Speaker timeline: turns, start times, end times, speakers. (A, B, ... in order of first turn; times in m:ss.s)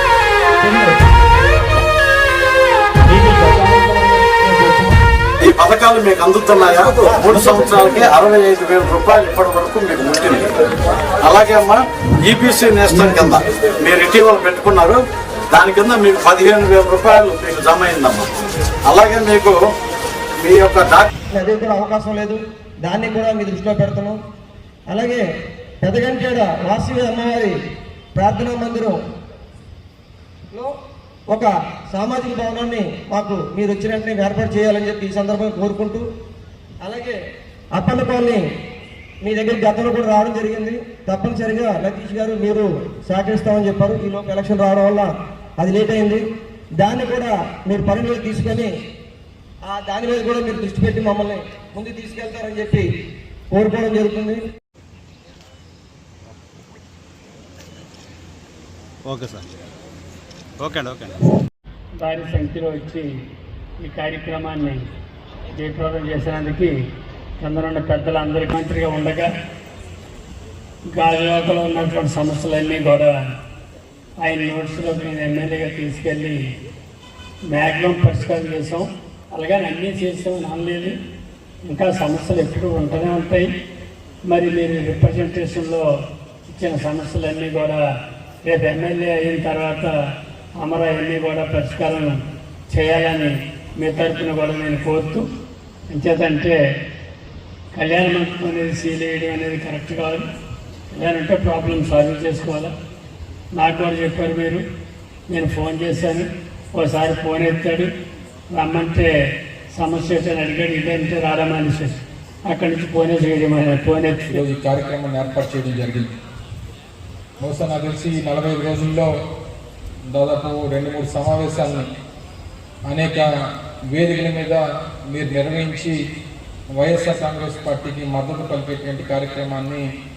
0:00.6-0:01.0 A
0:03.1-0:05.0 A
0:05.4-0:10.5 B
0:07.1-0:08.0 A
0:11.2-0:15.0 B
0:12.4-0:13.2 C
0:13.9-0:14.7 C
0:15.5-0:18.2 B
0:15.6-0:16.6 C
0:17.4-0:18.0 C
0:18.9-0:19.5 B
0:20.4-0:21.0 B
0:21.3-0:24.2 A
0:24.9-0:25.2 A
0:25.8-0:27.5 A
0:28.1-0:29.0 A
0:31.3-0:36.0 A
0:36.8-0:37.2 A
0:37.7-0:38.4 A
0:39.2-0:46.2 A
0:46.8-0:48.7 A
0:49.7-0:52.9 A
0:53.5-0:54.4 A
0:59.1-0:59.4 C
1:00.6-1:01.2 C
1:00.8-1:01.0 B
1:02.0-1:03.1 D
1:03.8-1:04.9 D
1:05.5-1:06.8 D
1:07.4-1:09.3 D
1:10.9-1:13.4 D
1:14.2-1:16.5 D
1:17.5-1:21.0 D
1:21.6-1:23.5 D
1:24.3-1:25.8 D
1:26.5-1:27.8 D
1:28.4-1:29.9 D
1:30.6-1:35.3 D
1:35.9-1:36.6 D
1:37.7-1:40.2 D
1:40.9-1:42.7 D
1:43.6-1:44.6 D
1:45.3-1:47.9 D
1:48.5-1:49.1 D
1:49.7-1:54.4 D
1:54.3-1:56.1 E
1:57.4-1:59.1 E
2:00.1-2:01.9 E
2:02.8-2:03.3 E
2:03.9-2:05.9 E
2:06.8-2:09.8 E